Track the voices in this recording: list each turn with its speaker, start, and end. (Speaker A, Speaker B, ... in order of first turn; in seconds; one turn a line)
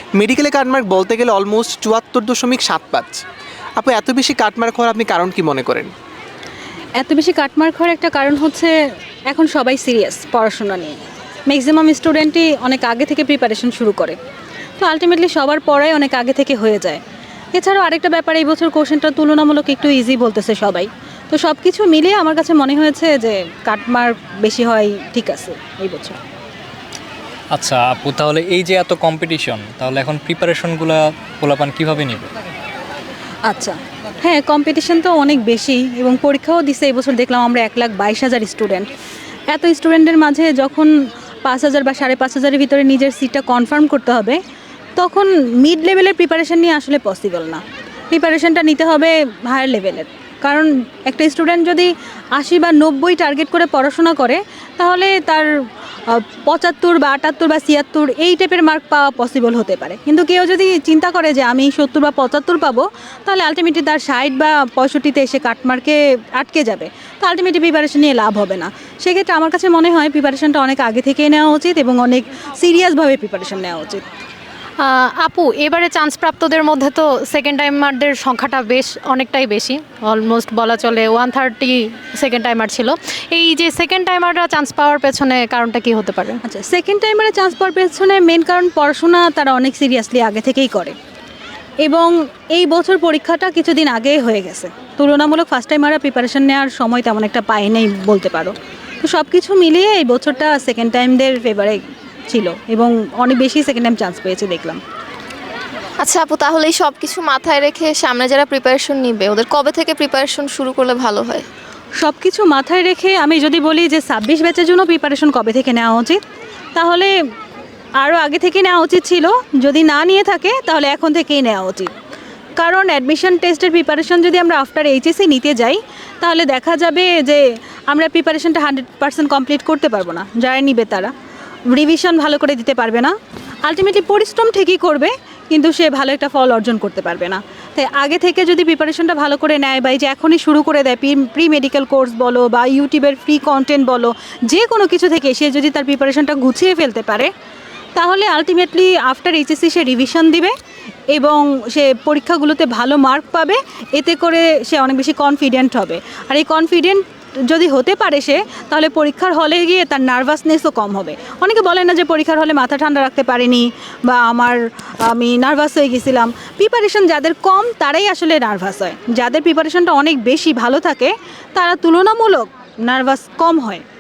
Speaker A: 0.2-3.2
Speaker A: 3.8-5.9
Speaker B: 7.0-8.7
Speaker B: 9.3-11.0
Speaker B: 11.5-14.2
Speaker B: 14.8-17.0
Speaker B: 17.5-26.2
Speaker C: 27.5-32.3
Speaker B: 33.5-38.9
Speaker B: 39.5-40.9
Speaker B: 41.4-44.4
Speaker B: 45.0-55.5
Speaker B: 56.1-74.0
Speaker D: 74.8-86.4
Speaker B: 86.4-91.0
Speaker B: 91.8-104.8
Speaker E: 106.0-111.5
Speaker B: 112.0-116.2
Speaker B: 116.8-117.1
Speaker B: 118.0-121.9
Speaker B: 122.6-131.1
Speaker B: 131.7-133.1
Speaker B: 133.7-147.3
Speaker B: 148.0-150.5
Speaker B: 151.1-173.8